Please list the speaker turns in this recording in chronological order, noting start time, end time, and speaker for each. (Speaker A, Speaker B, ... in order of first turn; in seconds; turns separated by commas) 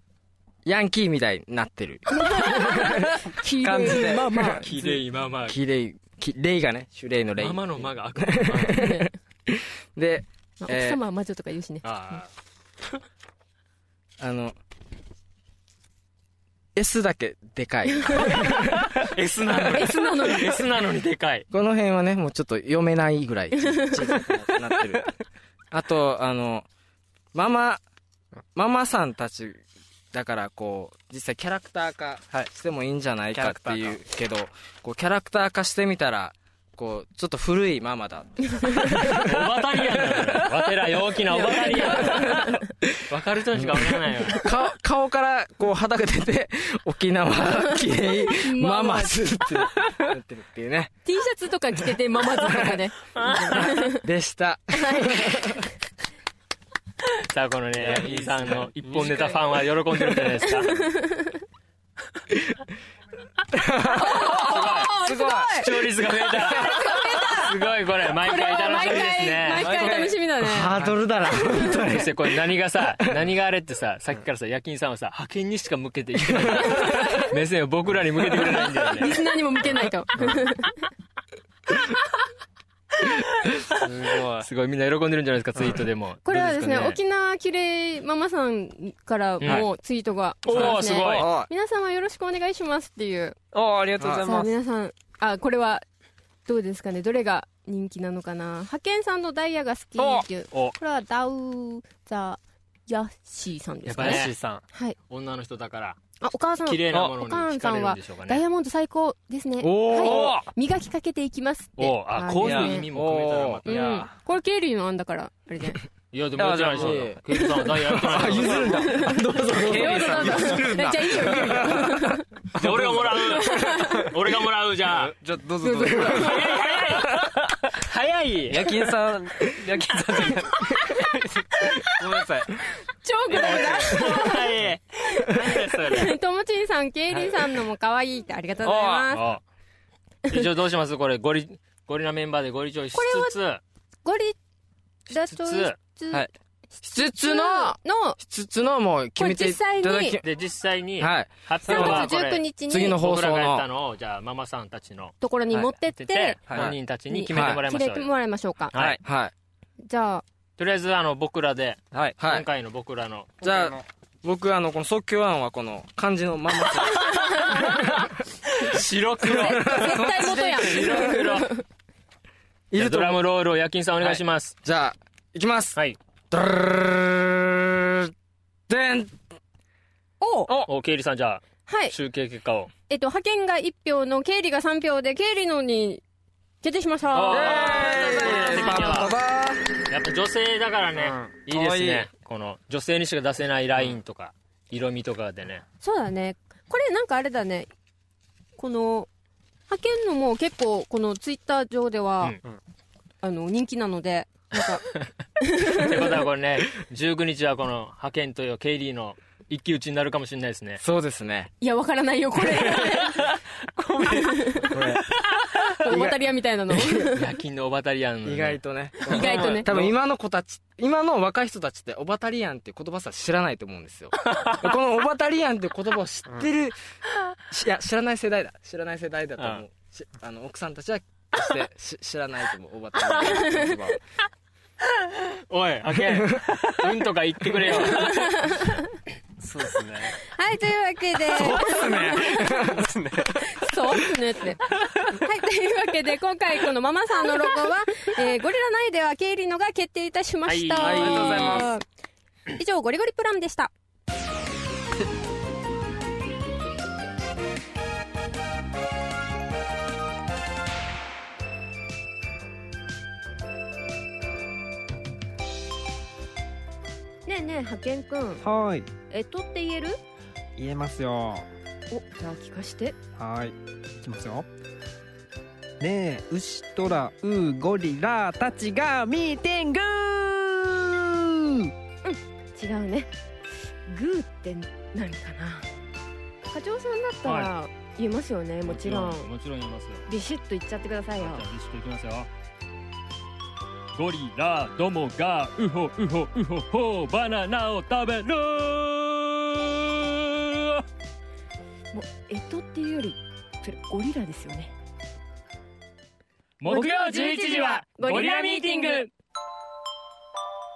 Speaker A: 0.7-3.1, Speaker B: 2.1-4.7, Speaker A: 3.6-11.0, Speaker C: 3.6-4.2, Speaker D: 4.5-5.6, Speaker D: 7.4-9.0, Speaker B: 8.7-9.1, Speaker B: 10.6-12.2, Speaker D: 11.8-12.3, Speaker A: 14.2-14.6, Speaker A: 16.8-19.9, Speaker B: 18.1-18.6, Speaker D: 18.9-21.5, Speaker B: 19.6-20.6, Speaker A: 21.5-25.1, Speaker A: 25.7-26.7, Speaker A: 27.3-27.8, Speaker A: 28.6-29.6, Speaker A: 30.1-39.5, Speaker C: 33.3-34.0, Speaker D: 39.0-44.5, Speaker C: 40.0-40.6, Speaker C: 41.3-42.3, Speaker B: 41.7-42.5, Speaker A: 42.0-43.0, Speaker A: 43.5-50.9, Speaker B: 48.3-49.4, Speaker B: 51.1-54.0, Speaker A: 52.2-52.8, Speaker D: 53.1-53.8, Speaker A: 53.8-55.6, Speaker B: 54.7-55.6, Speaker D: 57.1-60.9, Speaker C: 57.8-60.2, Speaker B: 60.6-61.4, Speaker A: 63.5-64.4, Speaker B: 63.9-65.7, Speaker D: 64.0-70.1, Speaker A: 65.0-65.5, Speaker B: 66.3-67.6, Speaker B: 68.2-70.7, Speaker C: 69.6-70.2, Speaker A: 70.4-72.5, Speaker D: 71.5-79.2, Speaker A: 76.3-76.8, Speaker B: 76.7-77.3, Speaker B: 78.4-80.8, Speaker D: 83.0-83.9, Speaker C: 83.8-84.5, Speaker D: 84.4-87.0, Speaker C: 85.6-85.8, Speaker B: 86.2-93.4, Speaker D: 89.4-89.7, Speaker D: 90.5-91.3, Speaker C: 90.5-91.3, Speaker A: 90.6-91.5, Speaker C: 93.5-94.5, Speaker A: 94.0-94.3, Speaker B: 94.2-95.8, Speaker B: 96.5-105.0, Speaker C: 100.0-100.2, Speaker D: 103.9-104.3, Speaker C: 104.0-104.6, Speaker D: 105.1-106.0, Speaker B: 106.2-112.9, Speaker D: 106.7-108.4, Speaker A: 109.6-110.4, Speaker C: 110.0-110.5, Speaker D: 111.8-114.1, Speaker C: 112.4-112.7, Speaker A: 112.4-114.0, Speaker B: 113.7-115.8, Speaker D: 116.1-119.0, Speaker C: 116.4-117.1, Speaker A: 116.8-122.2, Speaker C: 118.0-118.9, Speaker B: 118.6-122.3, Speaker C: 119.4-121.8, Speaker C: 122.5-123.4, Speaker D: 122.5-125.1, Speaker B: 123.2-124.1, Speaker C: 124.8-126.6, Speaker B: 125.6-126.9, Speaker A: 125.8-126.3, Speaker D: 126.1-128.7, Speaker C: 128.5-132.6, Speaker B: 133.0-139.3, Speaker D: 133.3-136.2, Speaker C: 137.1-137.4, Speaker C: 138.6-139.1, Speaker D: 139.1-139.4, Speaker D: 140.3-143.6, Speaker B: 142.9-143.4, Speaker B: 144.1-144.4, Speaker B: 145.1-148.2, Speaker D: 145.1-145.8, Speaker A: 146.8-150.3, Speaker B: 149.2-150.2, Speaker D: 150.2-155.2, Speaker A: 151.0-152.1, Speaker B: 151.7-153.0, Speaker A: 152.7-153.7, Speaker B: 155.2-156.4, Speaker D: 156.0-158.1, Speaker C: 156.5-156.7, Speaker B: 157.1-158.8, Speaker A: 157.3-157.6, Speaker D: 158.7-159.0, Speaker A: 158.8-159.3, Speaker B: 159.8-160.2, Speaker D: 160.6-163.4, Speaker C: 161.9-162.2, Speaker A: 162.2-162.5, Speaker C: 163.4-163.8, Speaker A: 163.4-168.0, Speaker B: 166.9-167.9, Speaker D: 167.7-167.9, Speaker D: 168.6-171.6, Speaker A: 169.2-170.3, Speaker B: 169.2-171.6, Speaker A: 172.7-173.2, Speaker D: 172.8-174.6, Speaker A: 174.0-175.8, Speaker A: 176.3-178.1, Speaker A: 178.7-179.2, Speaker B: 180.2-180.5, Speaker D: 180.5-182.7, Speaker B: 181.7-181.9, Speaker B: 182.9-186.0, Speaker B: 186.6-189.1, Speaker D: 187.1-189.1, Speaker A: 187.3-189.8, Speaker D: 189.9-195.6, Speaker C: 190.9-192.1, Speaker B: 195.8-197.7, Speaker B: 198.6-199.1, Speaker B: 199.7-202.4, Speaker B: 203.2-204.8, Speaker B: 205.4-206.2, Speaker D: 205.7-210.8, Speaker A: 210.8-211.5, Speaker B: 211.6-213.3, Speaker C: 212.7-214.8, Speaker B: 214.1-214.8, Speaker A: 214.7-215.2, Speaker B: 215.7-217.3, Speaker A: 215.8-217.1, Speaker D: 217.2-218.6, Speaker A: 218.2-226.8, Speaker B: 219.1-219.7, Speaker C: 219.2-219.9, Speaker A: 227.5-234.0, Speaker D: 229.4-229.6, Speaker B: 233.2-234.0, Speaker D: 235.1-238.6, Speaker A: 236.0-236.4, Speaker B: 237.7-238.9, Speaker C: 239.4-240.2, Speaker B: 240.2-242.7, Speaker A: 241.3-242.9, Speaker C: 242.0-243.9, Speaker B: 243.3-251.8, Speaker C: 244.8-245.1, Speaker D: 250.5-251.6, Speaker C: 250.8-251.7, Speaker A: 250.8-251.7, Speaker B: 252.5-253.7, Speaker B: 267.3-268.4, Speaker E: 268.4-268.9, Speaker B: 269.1-270.0, Speaker E: 270.6-271.5, Speaker B: 271.9-272.9, Speaker E: 273.2-274.4, Speaker E: 275.8-281.7, Speaker B: 282.0-283.1, Speaker B: 283.9-285.7, Speaker B: 286.5-289.3, Speaker D: 287.2-287.5, Speaker D: 288.6-290.0, Speaker B: 290.1-291.5, Speaker D: 291.2-292.3, Speaker D: 293.9-300.8, Speaker B: 301.9-304.7, Speaker D: 306.6-309.1, Speaker B: 306.7-309.1